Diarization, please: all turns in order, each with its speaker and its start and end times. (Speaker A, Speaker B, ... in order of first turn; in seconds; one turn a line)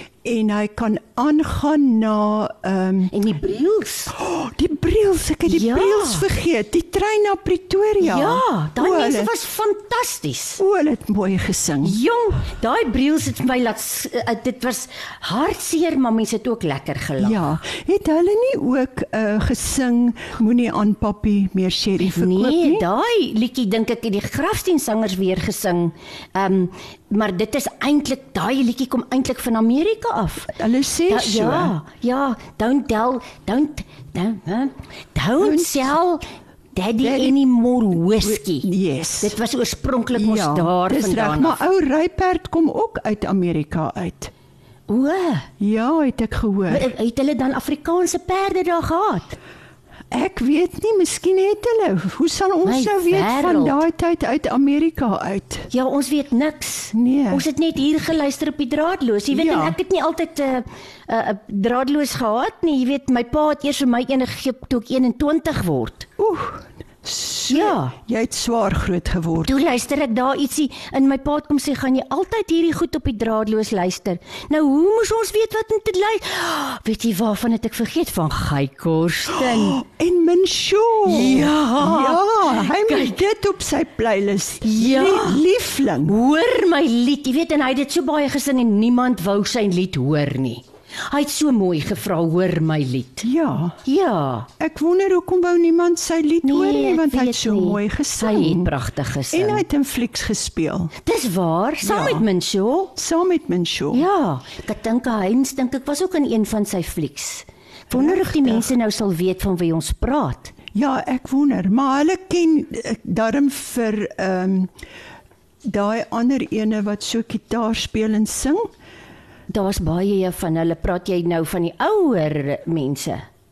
Speaker A: 0.2-3.1
Speaker B: 3.1-4.1
Speaker A: 4.1-9.3
Speaker B: 5.5-6.3
Speaker B: 8.0-10.6
Speaker A: 10.6-12.0
Speaker B: 11.8-17.5
Speaker A: 17.2-22.9
Speaker B: 22.0-30.5
Speaker A: 30.5-31.7
Speaker B: 31.1-36.2
Speaker A: 35.4-35.9
Speaker B: 36.7-38.7
Speaker A: 37.0-37.4
Speaker A: 38.2-39.4
Speaker B: 39.2-41.6
Speaker A: 40.1-44.3
Speaker B: 44.9-45.5
Speaker A: 45.6-46.9
Speaker B: 46.7-49.4
Speaker A: 50.1-55.7
Speaker B: 52.6-53.8
Speaker B: 55.7-66.1
Speaker A: 56.9-57.4
Speaker A: 59.3-59.8
Speaker A: 66.2-69.5
Speaker B: 67.5-68.0
Speaker B: 69.4-79.8
Speaker A: 79.3-86.1
Speaker B: 81.0-83.2
Speaker B: 84.6-85.5
Speaker B: 86.0-93.2
Speaker A: 93.2-93.8
Speaker B: 93.8-94.5
Speaker A: 94.6-98.7
Speaker B: 96.4-99.6
Speaker A: 99.3-100.9
Speaker B: 101.0-102.9
Speaker A: 101.8-102.2
Speaker A: 103.0-104.0
Speaker B: 103.9-110.5
Speaker A: 107.9-108.7
Speaker A: 110.7-114.7
Speaker A: 115.7-118.7
Speaker B: 119.5-123.2